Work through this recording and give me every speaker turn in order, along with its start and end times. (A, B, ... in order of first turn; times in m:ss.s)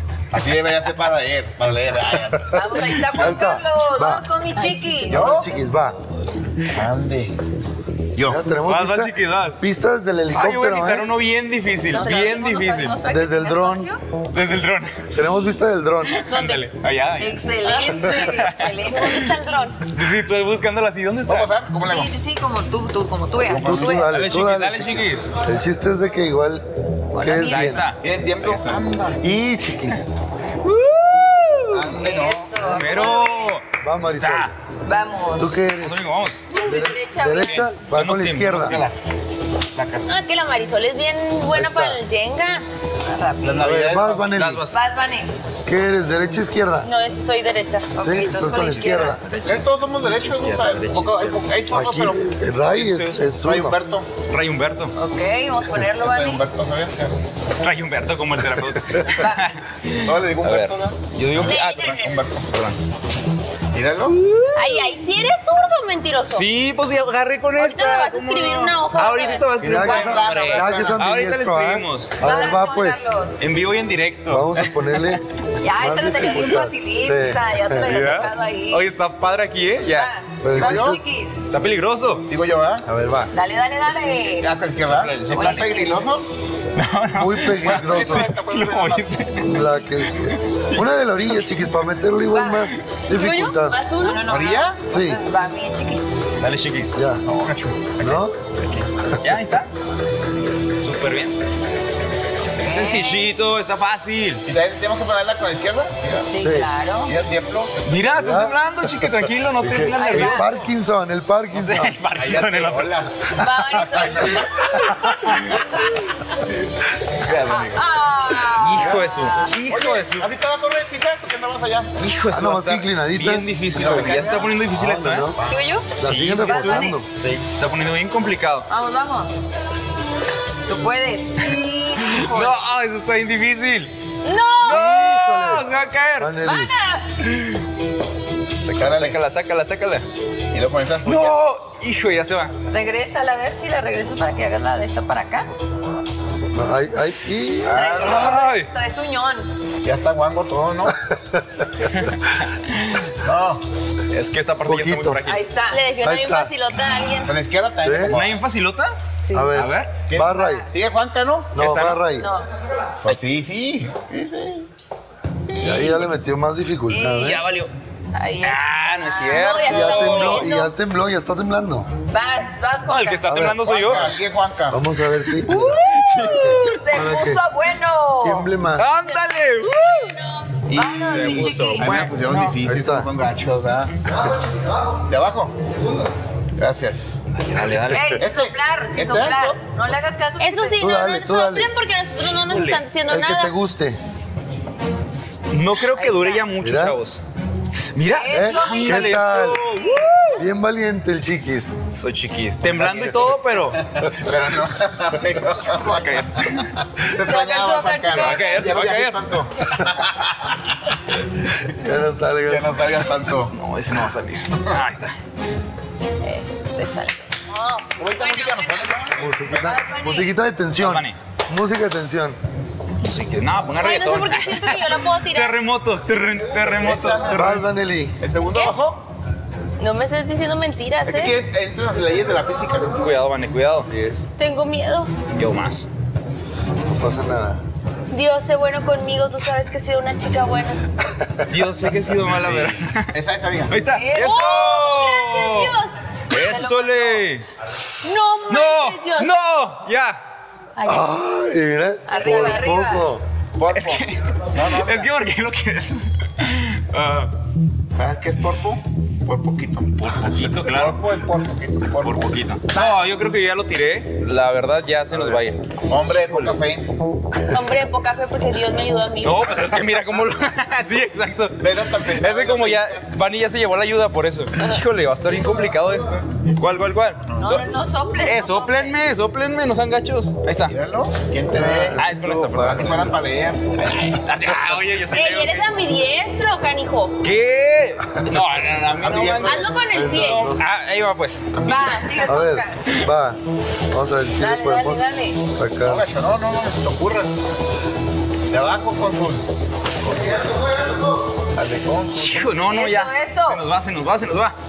0:00.3-0:03.1 A
0:02.5-0:05.3 B
0:02.7-0:04.2 C
0:05.1-0:05.5 A
0:05.1-0:06.0 C
0:06.7-0:07.4 A
0:08.1-0:08.4 A
0:08.2-0:11.1 C
0:08.6-0:09.6 D
0:10.3-0:13.0 D
0:11.9-0:14.0 B
0:13.0-0:13.9 C
0:14.3-0:15.1 D
0:15.1-0:16.2 C
0:16.0-0:19.1 D
0:16.3-0:16.6 E
0:17.2-0:20.0 B
0:18.9-0:19.8 E
0:19.9-0:21.5 D
0:21.2-0:22.1 A
0:21.8-0:24.2 B
0:23.5-0:26.6 C
0:23.5-0:24.0 A
0:24.0-0:25.3 D
0:27.1-0:27.9 B
0:27.2-0:27.8 C
0:27.3-0:28.8 D
0:28.0-0:29.2 A
0:29.2-0:30.1 C
0:30.7-0:31.5 D
0:30.8-0:31.6 E
0:31.7-0:32.7 A
0:31.9-0:33.6 B
0:32.6-0:34.6 D
0:33.8-0:34.5 C
0:34.8-0:35.7 B
0:35.4-0:36.1 C
0:35.8-0:36.5 D
0:36.5-0:37.7 B
0:36.5-0:36.9 E
0:36.7-0:38.8 C
0:37.4-0:38.9 D
0:39.7-0:40.0 A
0:40.0-0:42.6 E
0:41.5-0:42.0 C
0:43.0-0:43.9 B
0:43.4-0:44.3 A
0:43.6-0:44.7 C
0:44.3-0:44.8 D
0:44.7-0:45.3 B
0:45.6-0:46.9 C
0:46.8-0:47.9 E
0:47.9-0:49.2 B
0:48.0-0:49.2 C
0:48.6-0:51.4 D
0:49.4-0:52.3 A
0:51.7-0:53.8 C
0:52.7-0:53.3 D
0:53.4-0:54.1 A
0:54.2-0:54.9 D
0:54.9-0:56.4 B
0:56.0-0:57.4 A
0:57.6-1:02.8 D
0:59.1-0:59.4 B
1:00.0-1:02.5 A
1:01.3-1:02.2 E
1:03.7-1:04.2 A
1:04.1-1:05.0 D
1:04.5-1:06.5 E
1:06.3-1:12.2 D
1:07.6-1:09.5 E
1:09.6-1:13.0 C
1:09.8-1:11.0 A
1:12.2-1:13.6 B
1:13.4-1:15.2 D
1:14.3-1:18.0 C
1:15.6-1:18.9 B
1:17.8-1:20.1 D
1:19.9-1:21.4 B
1:20.4-1:21.0 C
1:20.5-1:21.0 A
1:21.5-1:22.3 D
1:22.3-1:22.8 A
1:22.8-1:23.3 C
1:23.3-1:24.5 B
1:24.4-1:26.3 A
1:24.8-1:25.8 D
1:25.4-1:26.0 B
1:26.7-1:29.5 D
1:27.1-1:28.3 C
1:27.5-1:29.4 A
1:29.4-1:33.8 C
1:30.1-1:31.8 D
1:32.3-1:32.7 B
1:32.7-1:33.0 D
1:33.1-1:34.2 E
1:34.0-1:36.1 B
1:34.3-1:34.8 A
1:34.9-1:35.2 C
1:36.4-1:36.9 D
1:36.9-1:37.2 C
1:37.2-1:38.3 A
1:38.0-1:38.4 C
1:38.6-1:39.7 D
1:40.8-1:41.4 D
1:42.6-1:43.4 B
1:42.6-1:44.4 D
1:44.4-1:46.3 A
1:46.2-1:47.1 B
1:46.4-1:46.7 C
1:47.0-1:47.9 A
1:47.8-1:50.7 D
1:48.1-1:48.6 C
1:49.6-1:52.0 C
1:49.9-1:50.5 B
1:51.5-1:53.0 D
1:52.1-1:55.5 A
1:53.4-1:54.4 B
1:53.4-1:54.3 E
1:54.7-1:55.7 D
1:57.1-1:57.8 A
1:57.4-1:59.6 B
1:58.5-2:00.3 D
1:58.8-1:59.0 A
1:59.6-2:01.9 A
2:02.0-2:05.3 D
2:02.3-2:04.1 C
2:03.7-2:04.6 A
2:04.7-2:05.4 C
2:05.3-2:05.6 A
2:05.5-2:05.8 B
2:06.0-2:07.1 C
2:06.0-2:08.6 D
2:06.4-2:07.0 B
2:08.7-2:09.8 B
2:10.6-2:12.6 B
2:12.0-2:13.9 D
2:14.2-2:14.7 E
2:14.5-2:14.8 B
2:14.6-2:16.4 D
2:14.7-2:15.6 C
2:16.2-2:16.7 C
2:16.4-2:17.0 B
2:17.2-2:17.6 D
2:18.6-2:20.0 D
2:18.8-2:19.2 A
2:20.5-2:21.4 A
2:21.0-2:22.5 D
2:22.7-2:25.5 B
2:26.5-2:28.4 C
2:27.6-2:28.0 A
2:27.6-2:29.5 B
2:28.0-2:28.7 D
2:29.8-2:31.0 A
2:31.0-2:31.6 C
2:31.8-2:33.1 D
2:33.2-2:33.6 A
2:34.1-2:35.4 D
2:34.6-2:35.2 C
2:35.2-2:35.8 B
2:35.7-2:37.3 E
2:36.0-2:36.5 C
2:37.2-2:38.4 A
2:37.8-2:38.2 C
2:38.0-2:39.0 D
2:39.3-2:40.6 C
2:39.5-2:40.0 D
2:40.0-2:41.5 A
2:40.2-2:40.7 B
2:41.5-2:42.3 C
2:41.5-2:42.0 D
2:42.2-2:42.5 B
2:43.0-2:44.7 A
2:45.5-2:46.1 A
2:45.6-2:47.4 C
2:46.9-2:47.7 D
2:48.1-2:50.6 B
2:48.4-2:50.5 D
2:49.4-2:50.7 E
2:49.6-2:51.9 C
2:52.1-2:53.2 B
2:52.9-2:54.1 D
2:53.3-2:53.7 C
2:53.6-2:54.8 A
2:54.7-2:55.6 C
2:55.3-2:56.8 D
2:55.4-2:58.5 B
2:56.9-2:57.4 C
2:58.2-2:58.9 C
2:58.8-2:59.8 D
2:59.6-3:00.6 E
3:00.7-3:04.0 A
3:00.7-3:02.0 B
3:01.0-3:02.6 D
3:02.6-3:03.1 C
3:05.0-3:05.6 A
3:06.6-3:07.2 A
3:07.3-3:08.2 D
3:07.9-3:10.9 B
3:08.2-3:09.6 A
3:10.4-3:13.5 E
3:10.8-3:11.7 C
3:12.2-3:12.9 D
3:13.1-3:14.0 C
3:15.5-3:17.2 D
3:15.8-3:16.4 B
3:16.6-3:17.0 C
3:17.9-3:20.4 D
3:18.0-3:19.4 B
3:18.3-3:19.7 C
3:19.9-3:20.2 E
3:20.4-3:21.8 C
3:21.9-3:23.8 D
3:22.7-3:26.2 A
3:25.7-3:26.7 D
3:27.0-3:30.9 A
3:27.2-3:28.7 E
3:28.1-3:29.2 D
3:31.7-3:32.7 C
3:32.4-3:33.5 A
3:33.5-3:35.2 D
3:34.6-3:34.8 A
3:36.2-3:40.3 B
3:38.0-3:39.7 A
3:39.2-3:42.4 C
3:40.8-3:41.2 D
3:43.0-3:47.6 D
3:43.8-3:45.6 E
3:46.7-3:47.6 A
3:47.3-3:48.2 C
3:48.2-3:49.0 A
3:48.4-3:48.8 E
3:49.8-3:51.4 E
3:51.0-3:53.0 A
3:53.0-3:53.9 D
3:53.8-3:54.3 C
3:54.4-3:55.2 E
3:55.2-3:55.9 D
3:57.0-3:57.6 C
3:58.1-4:00.8 E
4:01.4-4:03.1 D
4:02.2-4:03.8 A
4:03.7-4:05.8 D
4:03.8-4:04.9 B
4:04.2-4:06.0 E
4:06.3-4:07.3 B
4:06.3-4:07.5 D
4:08.0-4:09.4 E
4:08.5-4:10.2 D
4:10.8-4:11.1 E
4:10.8-4:13.2 C
4:12.1-4:13.1 B
4:13.6-4:15.1 A
4:13.7-4:17.3 D
4:17.9-4:23.0 A
4:20.0-4:21.0 D
4:22.0-4:26.5 D
4:25.1-4:25.4 C
4:25.8-4:26.9 A
4:27.5-4:29.7 E
4:29.2-4:40.8 D
4:31.6-4:33.2 A
4:37.3-4:37.6 A
4:37.4-4:39.0 B
4:40.6-4:42.0 A
4:41.5-4:43.1 C
4:41.9-4:43.1 D
4:42.6-4:44.8 A
4:44.2-4:45.9 D
4:45.1-4:47.1 E
4:47.2-4:51.5 D
4:49.0-4:50.1 A
4:49.4-4:50.5 E
4:49.9-4:50.7 C
4:51.5-4:52.2 A
4:51.6-4:52.8 B
4:52.2-4:53.4 C
4:53.9-4:56.0 C
4:54.4-4:55.4 B
4:55.8-4:57.3 A
4:58.5-4:59.5 A
5:00.0-5:01.3 C
5:00.1-5:00.4 A
5:01.5-5:02.5 A
5:02.2-5:04.6 D
5:02.6-5:03.6 B